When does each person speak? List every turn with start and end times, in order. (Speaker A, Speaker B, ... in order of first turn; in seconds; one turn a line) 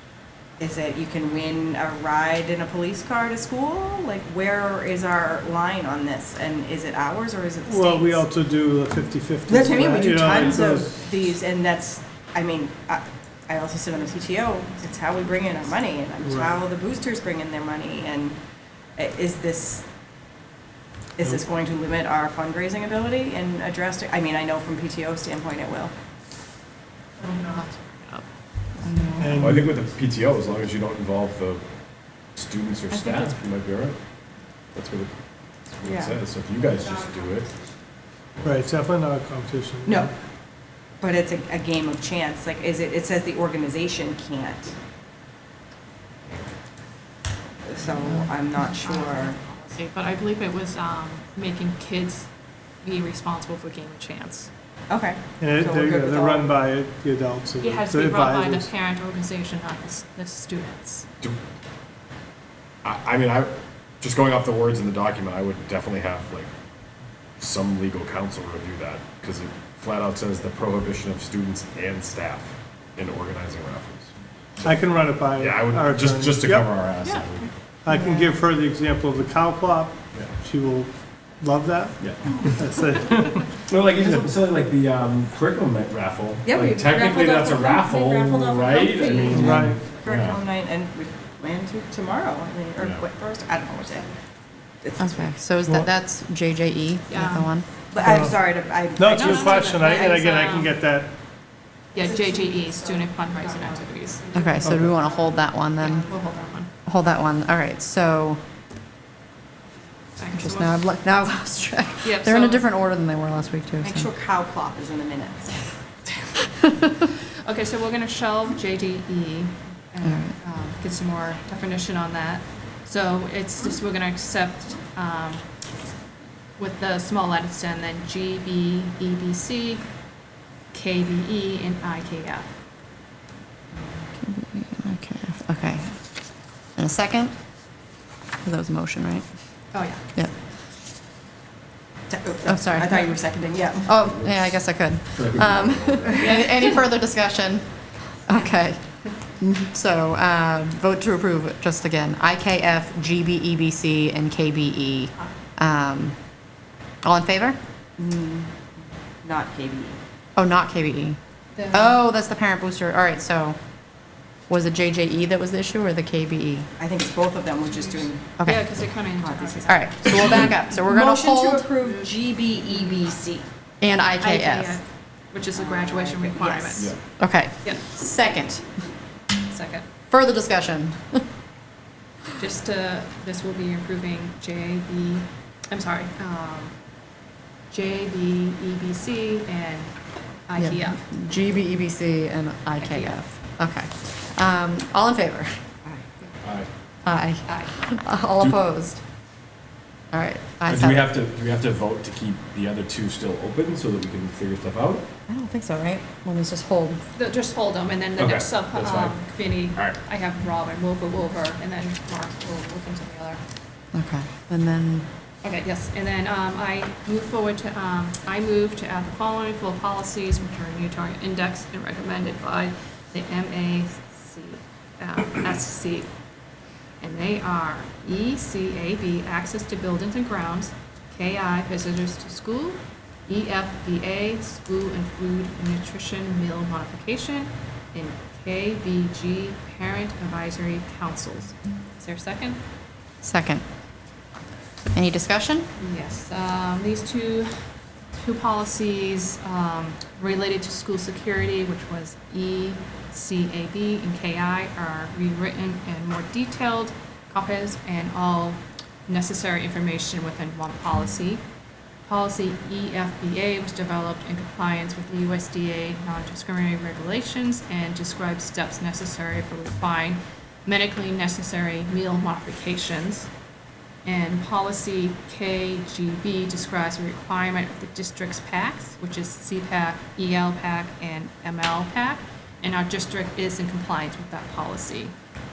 Speaker A: 0.6-8.2
Speaker B: 7.7-10.9
Speaker A: 9.5-18.4
Speaker B: 16.2-16.5
Speaker A: 18.9-19.9
Speaker A: 21.2-25.9
Speaker C: 27.2-28.2
Speaker D: 28.8-29.4
Speaker B: 29.2-29.8
Speaker E: 29.3-31.6
Speaker E: 32.3-34.0
Speaker E: 34.7-35.1
Speaker E: 35.7-37.5
Speaker A: 35.8-36.1
Speaker B: 38.4-40.1
Speaker A: 39.8-40.1
Speaker A: 41.0-44.7
Speaker A: 47.6-49.4
Speaker C: 49.0-52.3
Speaker C: 52.8-54.5
Speaker A: 54.9-56.5
Speaker B: 55.4-58.7
Speaker C: 57.6-61.1
Speaker E: 62.8-66.5
Speaker E: 67.4-77.5
Speaker B: 74.6-76.8
Speaker C: 77.0-77.3
Speaker B: 77.8-84.2
Speaker E: 82.0-82.5
Speaker E: 83.7-90.4
Speaker A: 86.4-94.1
Speaker B: 89.2-89.8
Speaker E: 92.8-93.0
Speaker A: 94.8-95.3
Speaker D: 95.0-97.7
Speaker C: 97.1-97.5
Speaker A: 97.9-99.9
Speaker B: 98.0-98.4
Speaker B: 99.0-101.1
Speaker C: 99.0-100.7
Speaker C: 101.9-104.2
Speaker D: 104.3-106.0
Speaker B: 104.6-104.9
Speaker C: 105.7-106.7
Speaker D: 106.8-108.4
Speaker C: 110.2-110.8
Speaker D: 110.3-114.1
Speaker C: 112.0-112.7
Speaker A: 113.8-115.6
Speaker C: 116.4-125.4
Speaker D: 120.0-120.3
Speaker C: 126.6-129.8
Speaker C: 130.7-132.5
Speaker D: 134.2-136.0
Speaker D: 136.7-137.3
Speaker D: 138.4-140.3
Speaker C: 139.7-140.0
Speaker A: 142.1-143.9
Speaker D: 142.5-143.1
Speaker D: 143.8-156.2
Speaker E: 144.0-144.6
Speaker E: 145.1-146.2
Speaker C: 146.2-146.8
Speaker D: 157.0-157.6
Speaker A: 158.0-160.0
Speaker D: 160.3-161.2
Speaker C: 161.5-162.0
Speaker D: 161.7-163.6
Speaker D: 164.5-166.7
Speaker A: 166.8-168.3
Speaker D: 168.4-168.7
Speaker C: 168.4-170.6
Speaker A: 169.2-173.4
Speaker D: 169.7-171.7
Speaker D: 173.8-174.8
Speaker C: 174.2-177.1
Speaker A: 175.5-176.9
Speaker D: 177.2-178.6
Speaker C: 179.5-179.8
Speaker D: 180.1-181.2
Speaker C: 182.3-186.8
Speaker C: 187.7-191.0
Speaker D: 190.6-195.6
Speaker C: 192.8-193.2
Speaker E: 196.4-196.7
Speaker D: 197.0-199.0
Speaker C: 197.4-198.0
Speaker D: 200.1-201.2
Speaker E: 200.7-205.1
Speaker D: 205.3-207.0
Speaker C: 207.1-213.4
Speaker E: 208.2-209.2
Speaker D: 213.9-215.1
Speaker C: 215.4-226.1
Speaker C: 227.0-242.6
Speaker D: 243.2-243.6
Speaker D: 244.9-245.7
Speaker C: 245.8-247.6
Speaker C: 248.1-261.4
Speaker C: 262.1-273.3
Speaker C: 274.0-285.1